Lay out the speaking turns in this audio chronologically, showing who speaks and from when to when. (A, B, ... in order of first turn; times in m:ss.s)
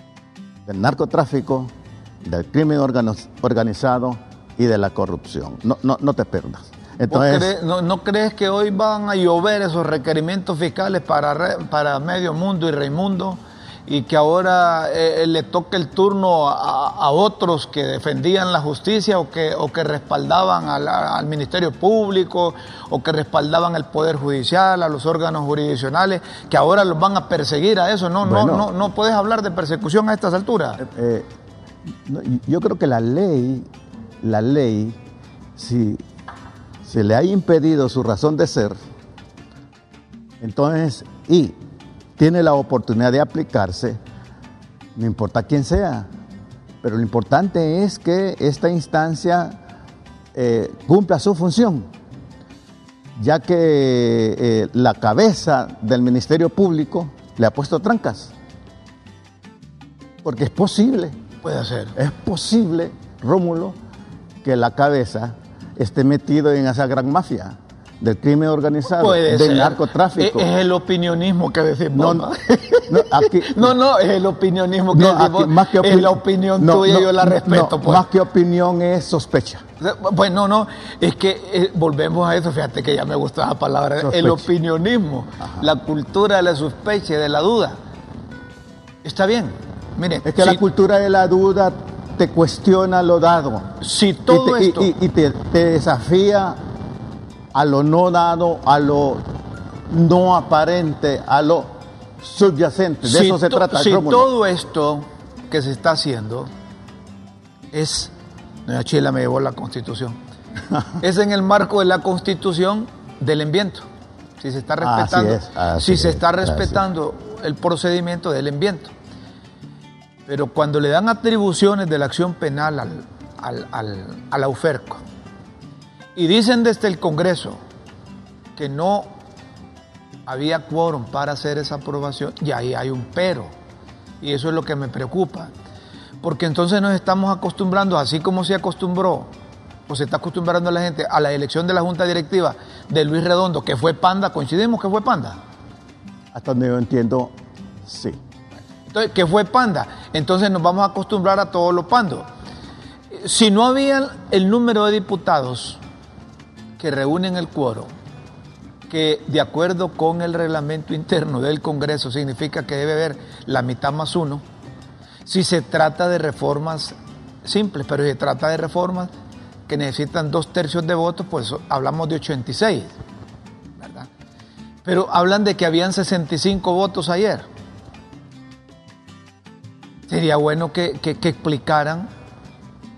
0:00.7-0:07.5 A
0:07.1-0:30.8 B
0:28.2-0:28.7 A
0:30.8-0:31.3 A
0:32.0-0:33.7 A
0:34.2-0:35.0 A
0:35.6-0:36.0 A
0:36.8-0:38.8 A
0:40.4-0:41.6 A
0:42.2-0:44.0 A
0:45.0-0:46.1 A
0:46.8-0:49.6 A
0:50.3-0:51.9 A
0:53.2-0:58.3 A
1:00.2-1:01.2 A
1:01.4-1:02.0 B
1:02.0-1:03.8 A
1:04.4-1:10.5 A
1:08.9-1:18.0 B
1:12.0-1:12.3 A
1:12.9-1:13.7 A
1:14.9-1:19.6 A
1:19.8-1:27.8 B
1:24.0-1:24.5 A
1:29.0-1:30.6 B
1:30.2-1:36.6 A
1:33.8-1:34.9 B
1:37.5-1:39.3 A
1:39.9-1:44.3 A
1:43.0-1:46.5 B
1:47.7-1:48.1 B
1:48.7-1:50.2 B
1:51.0-1:53.9 B
1:54.4-1:58.9 B
1:54.8-1:56.8 A
2:00.3-2:05.0 B
2:06.2-2:07.6 B
2:08.6-2:09.2 B
2:10.3-2:13.5 B
2:14.2-2:15.5 B
2:16.2-2:19.3 B
2:19.9-2:25.4 B
2:26.3-2:27.3 A
2:27.8-2:28.2 A
2:28.9-2:32.3 B
2:33.1-2:35.8 B
2:36.8-2:37.9 B
2:38.9-2:44.4 B
2:45.3-2:49.1 B
2:49.7-2:53.0 B
2:53.8-2:54.1 B
2:54.8-2:57.5 B
3:00.1-3:02.1 B